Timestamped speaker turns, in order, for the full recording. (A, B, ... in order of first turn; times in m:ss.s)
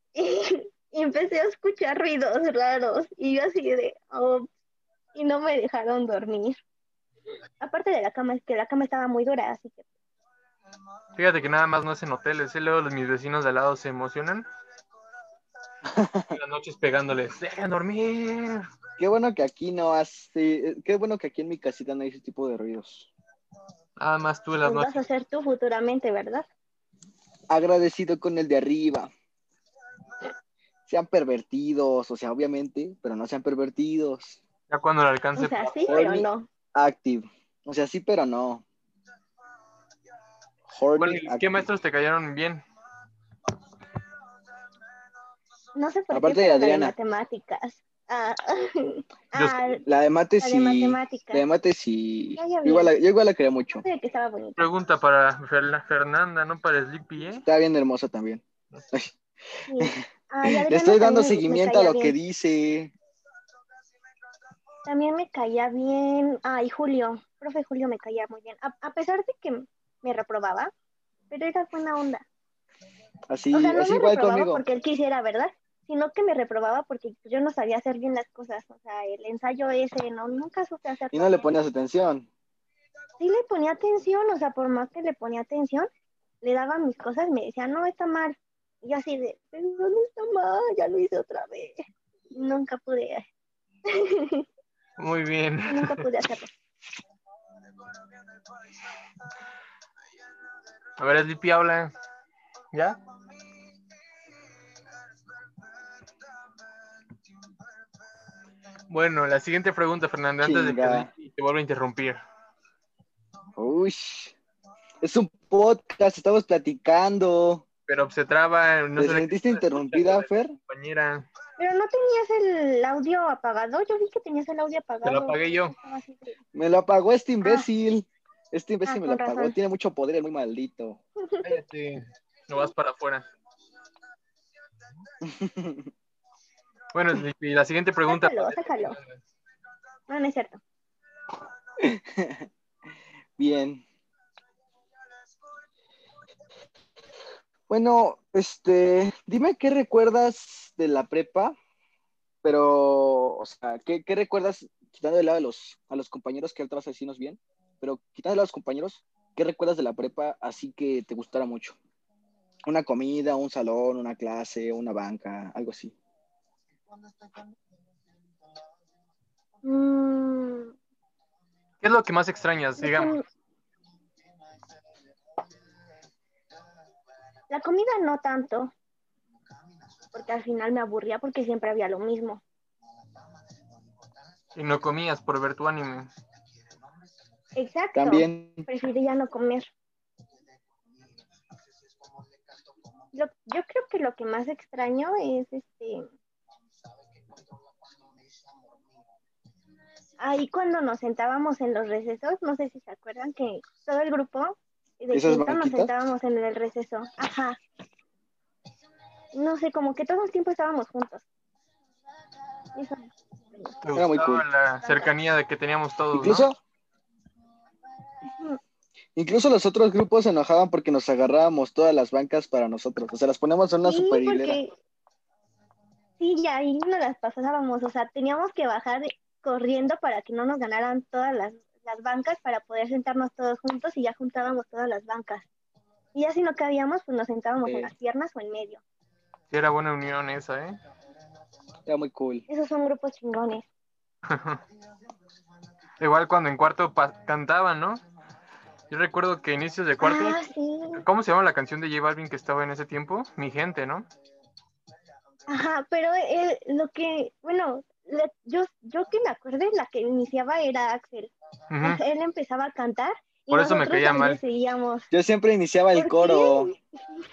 0:00.2-0:04.5 A
0:05.2-0:06.6 A
0:07.6-0:09.8 A
0:11.2-0:14.5 B
0:15.8-0:16.4 C
0:16.3-0:18.7 B
0:19.0-0:23.1 C
0:24.0-0:25.0 B
0:24.6-0:26.4 A
0:27.5-0:29.1 C
0:30.9-0:34.4 C
0:34.7-0:35.8 B
0:35.4-0:36.5 A
0:35.9-0:38.6 C
0:40.7-0:41.7 C
0:41.0-0:42.6 B
0:45.8-0:49.8 A
0:46.1-0:47.0 C
0:49.4-0:49.8 B
0:49.8-0:53.8 C
0:50.4-0:51.4 A
0:52.4-0:52.9 A
0:53.8-0:54.6 A
0:54.6-0:57.4 B
0:57.4-1:02.9 C
0:59.7-1:02.2 A
1:04.9-1:10.7 A
1:11.3-1:12.2 A
1:13.3-1:14.6 C
1:13.5-1:21.4 A
1:21.1-1:22.3 C
1:23.2-1:25.9 A
1:26.4-1:33.3 A
1:33.9-1:34.5 A
1:35.0-1:36.1 B
1:35.7-1:36.5 A
1:41.0-1:41.9 B
1:42.7-1:43.0 B
1:48.9-1:52.2 B
1:50.4-1:51.1 C
1:53.6-1:54.4 C
1:55.0-1:57.6 C
1:57.9-2:01.3 B
1:59.0-2:00.5 C
2:01.6-2:06.4 A
2:05.0-2:05.8 B
2:06.5-2:11.0 C
2:08.9-2:09.5 A
2:11.2-2:11.5 A
2:11.4-2:13.2 B
2:15.2-2:15.9 C
2:16.9-2:19.2 B
2:18.1-2:19.0 A
2:20.1-2:20.6 A
2:21.8-2:22.5 C
2:23.4-2:23.8 C
2:27.7-2:31.6 C
2:32.4-2:41.8 C
2:42.7-2:46.0 C
2:49.6-2:50.7 A
2:51.8-2:53.2 B
2:52.8-2:53.2 A
2:57.5-2:58.7 A
3:00.1-3:02.4 A
3:04.6-3:06.1 B
3:07.6-3:09.7 A
3:08.0-3:08.7 C
3:13.1-3:16.1 A
3:20.2-3:27.6 A
3:25.1-3:25.9 C
3:29.3-3:31.2 A
3:32.8-3:33.8 A
3:33.8-3:36.5 B
3:34.0-3:34.4 C
3:36.1-3:36.6 C
3:38.2-3:38.6 A
3:39.2-3:44.6 C
3:43.8-3:44.7 A
3:46.2-3:55.5 A
3:56.1-3:58.8 A
3:57.6-3:57.9 C
3:59.5-4:00.8 B
4:01.9-4:02.4 C
4:02.5-4:03.6 A
4:04.3-4:04.6 B
4:06.0-4:08.0 B
4:08.9-4:10.4 B
4:10.0-4:11.0 A
4:11.0-4:14.1 B
4:15.5-4:21.3 A
4:21.7-4:22.0 B
4:21.8-4:25.1 A
4:23.5-4:24.4 B
4:25.1-4:26.7 C
4:26.0-4:26.8 A